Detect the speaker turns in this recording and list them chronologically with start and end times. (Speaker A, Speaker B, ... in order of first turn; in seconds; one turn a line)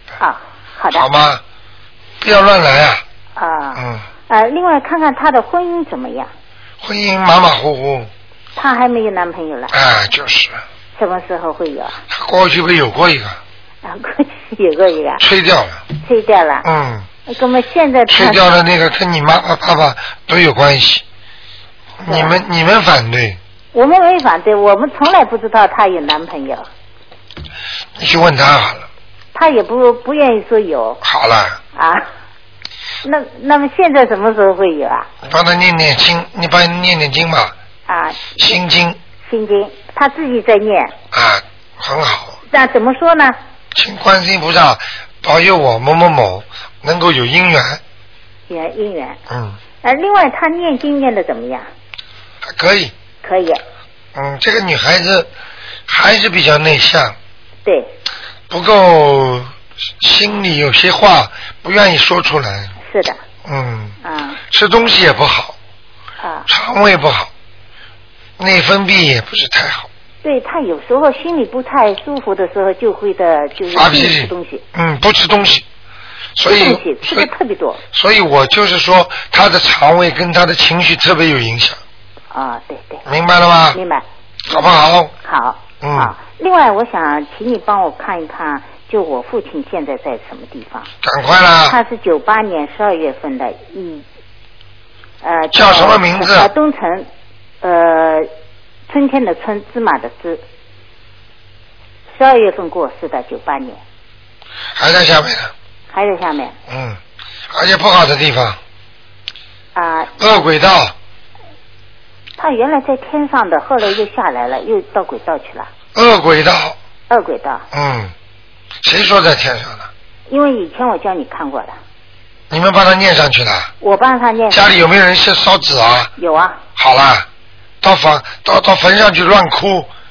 Speaker A: 0.2-1.1
Speaker B: 0.9-1.4
Speaker B: 2.2-3.0
Speaker A: 3.4-6.3
Speaker B: 3.8-4.0
Speaker B: 6.8-8.1
Speaker A: 8.6-9.7
Speaker B: 9.7-10.6
Speaker A: 10.9-12.0
Speaker B: 12.1-13.4
Speaker A: 13.8-15.2
Speaker B: 15.2-15.8
Speaker A: 16.0-16.6
Speaker B: 16.6-17.1
Speaker A: 17.3-18.4
Speaker B: 18.1-21.0
Speaker B: 22.0-23.4
Speaker A: 22.1-22.4
Speaker A: 23.7-26.7
Speaker B: 28.0-28.9
Speaker A: 29.3-31.0
Speaker B: 31.0-31.6
Speaker A: 31.7-32.1
Speaker A: 33.0-35.1
Speaker B: 35.2-37.5
Speaker A: 37.9-38.6
Speaker B: 38.4-39.0
Speaker A: 39.2-40.9
Speaker B: 41.1-42.4
Speaker A: 42.5-43.4
Speaker B: 43.7-47.8
Speaker A: 48.5-49.2
Speaker B: 49.3-49.6
Speaker A: 49.8-51.6
Speaker B: 52.4-52.9
Speaker A: 53.2-53.6
Speaker B: 54.1-55.3
Speaker B: 55.9-57.1
Speaker B: 58.5-59.5
Speaker B: 60.0-62.7
Speaker A: 62.8-63.2
Speaker B: 63.4-64.0
Speaker A: 64.0-64.4
Speaker B: 64.5-65.5
Speaker A: 66.2-66.5
Speaker B: 66.5-67.3
Speaker B: 68.4-69.9
Speaker A: 70.2-74.6
Speaker B: 73.7-75.6
Speaker B: 76.3-77.3
Speaker A: 76.4-77.8
Speaker B: 77.9-81.8
Speaker A: 82.3-83.0
Speaker B: 83.0-83.8
Speaker A: 83.7-84.7
Speaker B: 84.5-85.1
Speaker A: 85.2-90.9
Speaker B: 85.8-86.1
Speaker B: 91.0-91.8
Speaker A: 91.7-94.0
Speaker A: 95.2-97.1
Speaker B: 95.5-96.5
Speaker A: 97.6-98.3
Speaker A: 98.9-100.4
Speaker A: 102.1-103.8
Speaker B: 104.8-105.5
Speaker A: 105.9-106.5
Speaker B: 106.7-107.0
Speaker B: 107.5-108.6
Speaker A: 109.7-110.1
Speaker B: 110.2-110.9
Speaker A: 112.4-115.7
Speaker B: 115.9-116.8
Speaker A: 117.1-117.6
Speaker B: 117.7-118.1
Speaker B: 118.8-119.9
Speaker A: 120.3-121.8
Speaker B: 122.5-123.7
Speaker A: 123.8-124.8
Speaker B: 124.5-126.1
Speaker A: 126.2-126.6
Speaker B: 126.8-127.3
Speaker B: 127.8-129.9